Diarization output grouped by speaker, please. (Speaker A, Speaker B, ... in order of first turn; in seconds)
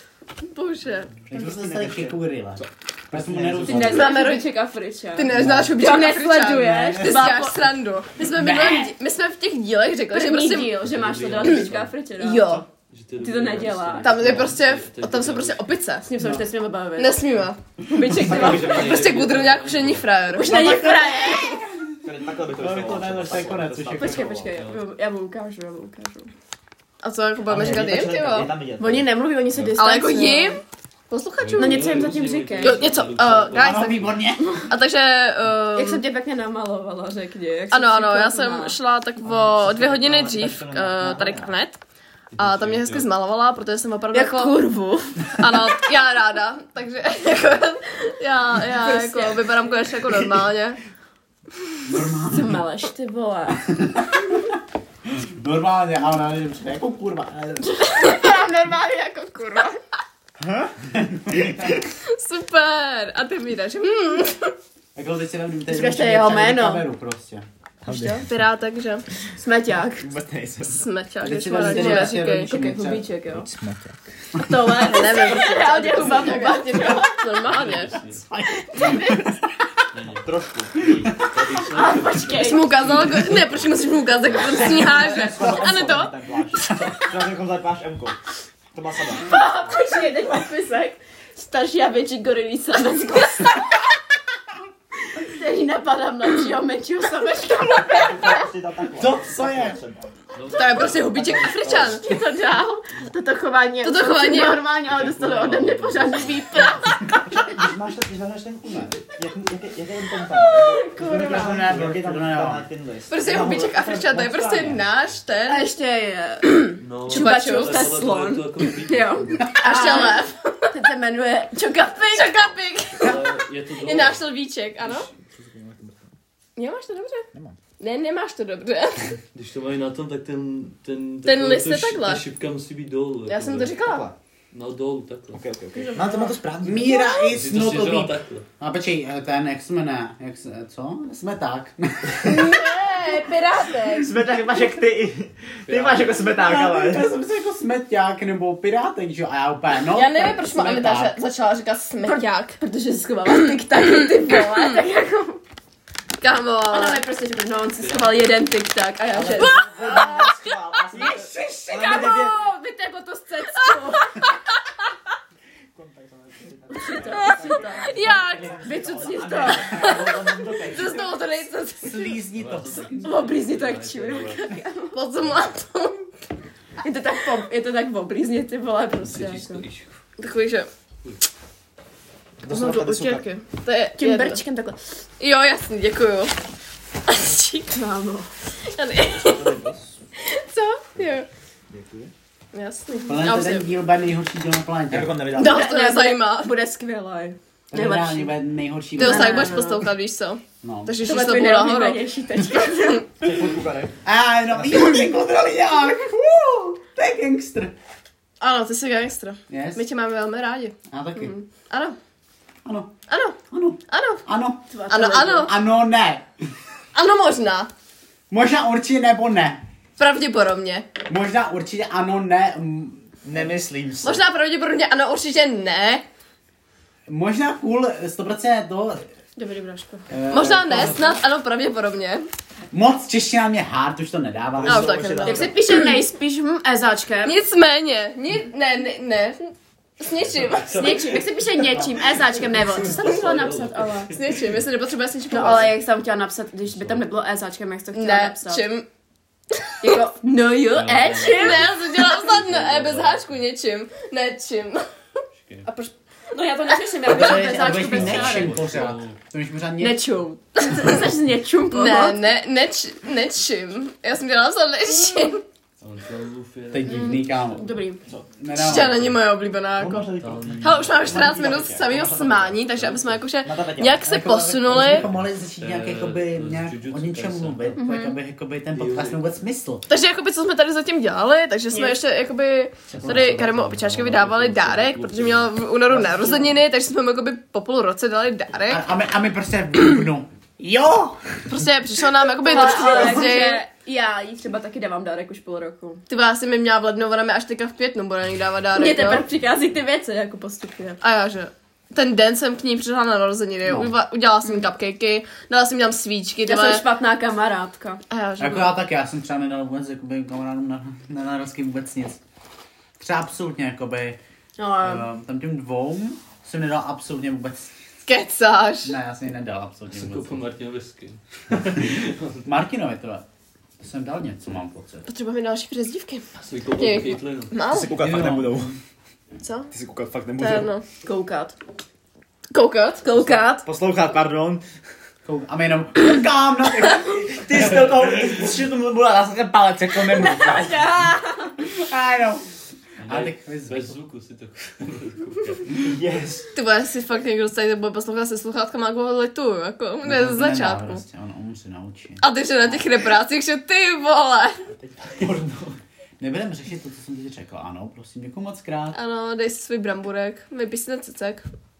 Speaker A: 0.4-1.2, 3.9-4.4, 5.2-10.8, 12.2-12.6, 14.0-16.1, 17.0-20.9, 27.0-28.5, 29.8-32.1, 32.6-36.0, 37.7-41.8, 42.4-44.6, 45.3-50.8, 58.0-58.3, 62.0-64.5, 67.9-69.0, 70.7-72.5, 74.8-78.0, 82.4-86.2, 100.5-102.1, 103.8-104.6, 113.1-115.7, 117.1-118.0, 119.6-120.7, 122.1-125.1, 126.5-127.3, 127.8-129.1, 131.2-132.2, 133.3-134.1, 136.9-137.3, 142.2-144.1, 149.9-152.6, 154.3-154.8, 156.2-157.0, 159.3-160.1, 167.3-168.7, 169.5-172.2, 174.9-176.1, 180.2-180.7, 182.5-184.4, 185.2-186.3, 187.1-187.7, 188.6-189.6, 190.2-191.3, 192.5-193.7, 195.3-196.5, 199.0-202.0, 208.4-211.9, 213.1-213.4, 213.9-214.2, 214.9-215.5, 216.9-217.7, 220.0-220.9, 224.0-226.0, 230.3-232.3, 234.6-236.0, 237.2-241.1, 244.1-245.7, 247.9-248.8, 249.6-249.9, 251.2-254.8, 255.6-255.9, 261.7-265.4, 268.5-270.1, 270.6-275.1, 279.9-288.8, 291.5-293.6, 296.1-299.2, 301.0-306.8, 308.1-308.8, 318.1-318.9, 325.1-326.2, 326.8-328.0, 329.4-329.7, 330.4-330.8, 332.5-333.0, 346.5-351.0, 352.2-354.6, 358.9-361.4
Speaker B: 1.3-2.2, 3.1-4.0, 18.0-18.9, 22.0-24.6, 27.4-29.1, 39.2-41.5, 60.4-61.8, 67.8-68.3, 70.0-70.9, 73.2-74.0, 80.1-80.9, 84.5-88.2, 88.7-89.4, 97.8-100.1, 100.7-102.0, 107.0-114.8, 125.2-126.1, 127.3-127.6, 133.8-134.2, 135.3-137.1, 143.9-147.1, 159.2-162.4, 165.7-171.2, 182.4-183.2, 189.1-190.0, 191.7-192.1, 194.9-195.6, 203.2-203.9, 204.6-204.8, 223.2-224.2, 234.5-235.6, 268.0-268.4, 269.8-272.8, 273.4-274.0, 327.6-328.8, 329.7-330.7, 333.6-334.6, 337.3-340.9, 345.8-346.5, 354.7-355.8
Speaker C: 1.3-4.2, 5.3-5.8, 6.7-7.4, 8.3-8.9, 20.4-24.3, 33.5-34.6, 51.9-52.6, 53.7-54.4, 55.1-57.7, 61.2-61.8, 64.9-67.5, 71.2-73.1, 78.2-79.4, 99.0-99.8, 111.0-112.6, 119.6-120.1, 136.6-142.5, 146.4-151.2, 159.8-160.3, 160.9-162.3, 171.8-173.2, 193.1-195.3, 197.7-199.6, 200.6-201.0, 204.0-207.7, 209.5-209.8, 210.9-211.3, 212.6-212.9, 213.5-214.6, 215.4-216.3, 218.3-219.6, 221.1-223.1, 227.1-229.0, 230.1-231.1, 232.7-235.0, 257.0-260.0, 266.7-267.7, 268.4-269.1, 274.0-279.9, 288.7-291.6, 303.6-303.9, 308.4-312.2, 313.0-314.2, 314.8-317.7, 318.8-320.4, 322.4-323.2, 323.8-325.1, 328.0-328.6, 335.2-337.9, 339.8-340.5, 341.6-342.5, 343.1-343.9, 350.0-352.7, 356.2-359.0
Speaker D: 3.6-7.7, 10.1-12.6, 13.2-14.2, 16.0-17.2, 17.9-18.9, 20.3-21.6, 23.9-26.3, 28.8-30.6, 31.6-32.9, 35.7-38.8, 44.1-45.4, 48.7-49.6, 52.3-53.6, 57.6-59.8, 65.7-66.8, 67.9-68.2, 69.4-70.1, 71.5-73.5, 74.4-77.6, 81.7-82.8, 89.2-93.6, 95.1-98.4, 101.6-107.1, 110.3-111.5, 115.5-122.4, 135.7-136.4, 152.0-155.4, 156.7-159.6, 161.9-164.2, 166.7-169.9, 173.0-175.0, 176.8-179.6, 183.9-184.8, 187.7-188.3, 195.3-198.3, 199.0-199.9, 201.0-203.1, 214.7-215.5, 229.4-230.1, 235.2-237.4, 240.7-244.1, 245.3-248.6, 249.8-251.7, 256.3-258.6, 259.8-262.2, 266.9-268.0, 277.8-278.1, 281.7-282.0, 292.4-296.0, 298.7-301.0, 306.4-308.0, 314.6-315.1, 331.0-331.6, 333.0-333.7, 340.1-341.6
Speaker E: 10.8-12.0, 12.9-15.7, 18.3-20.1, 24.5-24.8, 31.4-34.2, 42.3-43.1, 77.4-78.2, 79.9-84.3, 100.3-101.7, 104.8-106.6, 116.8-119.5, 123.0-124.2, 129.3-133.8, 134.5-135.4, 137.3-138.5, 145.7-146.2, 157.8-158.3, 172.3-174.5, 179.0-179.9, 240.1-241.3, 242.3-244.4, 246.6-247.1, 250.7-253.3, 255.4-255.7, 257.7-259.2, 265.8-267.4, 270.2-271.2, 272.8-273.2, 274.8-277.8, 278.7-279.2, 283.0-286.6, 319.9-322.5, 326.4-327.6, 343.0-345.9